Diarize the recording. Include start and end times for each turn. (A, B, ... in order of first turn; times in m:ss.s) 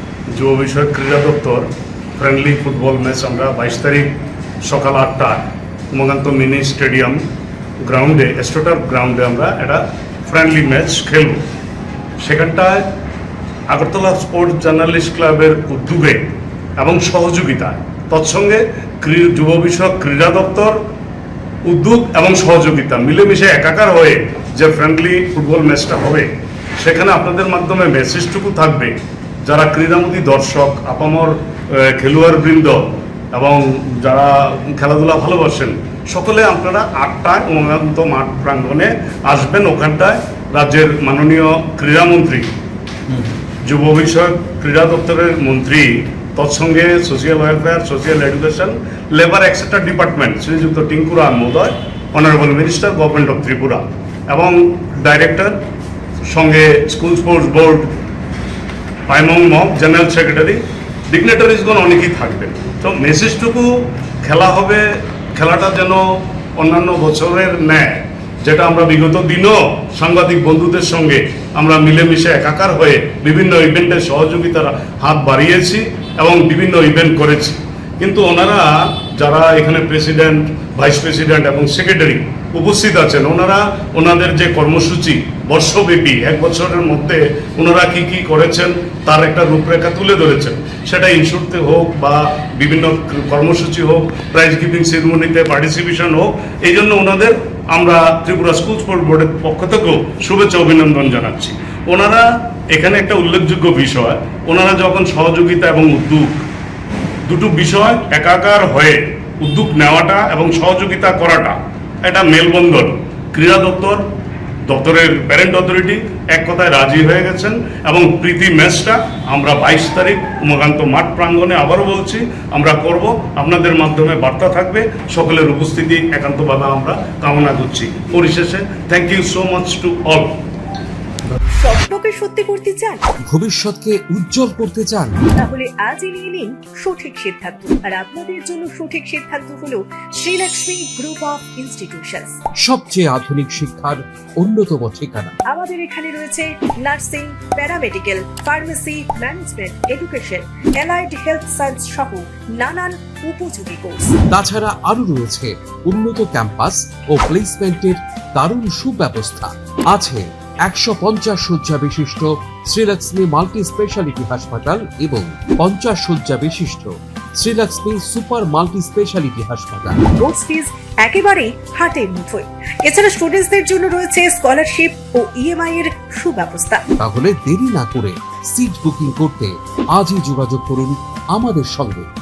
0:00.3-0:07.2 A
0:07.8-0:11.4 A
0:12.2-0:12.8 A
0:13.7-0:20.8 A
0:21.6-0:42.5 A
0:43.6-0:55.6 A
0:56.3-0:57.9 A
0:59.1-1:03.7 A
1:04.2-1:06.0 A
1:06.6-1:46.4 A
1:47.2-1:54.0 A
1:54.6-2:10.4 A
2:11.6-2:13.0 B
2:13.3-2:15.3 C
2:15.4-2:22.4 B
2:22.6-2:25.3 C
2:25.5-2:34.2 B
2:34.3-2:50.1 C
2:50.2-2:56.8 B
2:57.0-3:02.1 C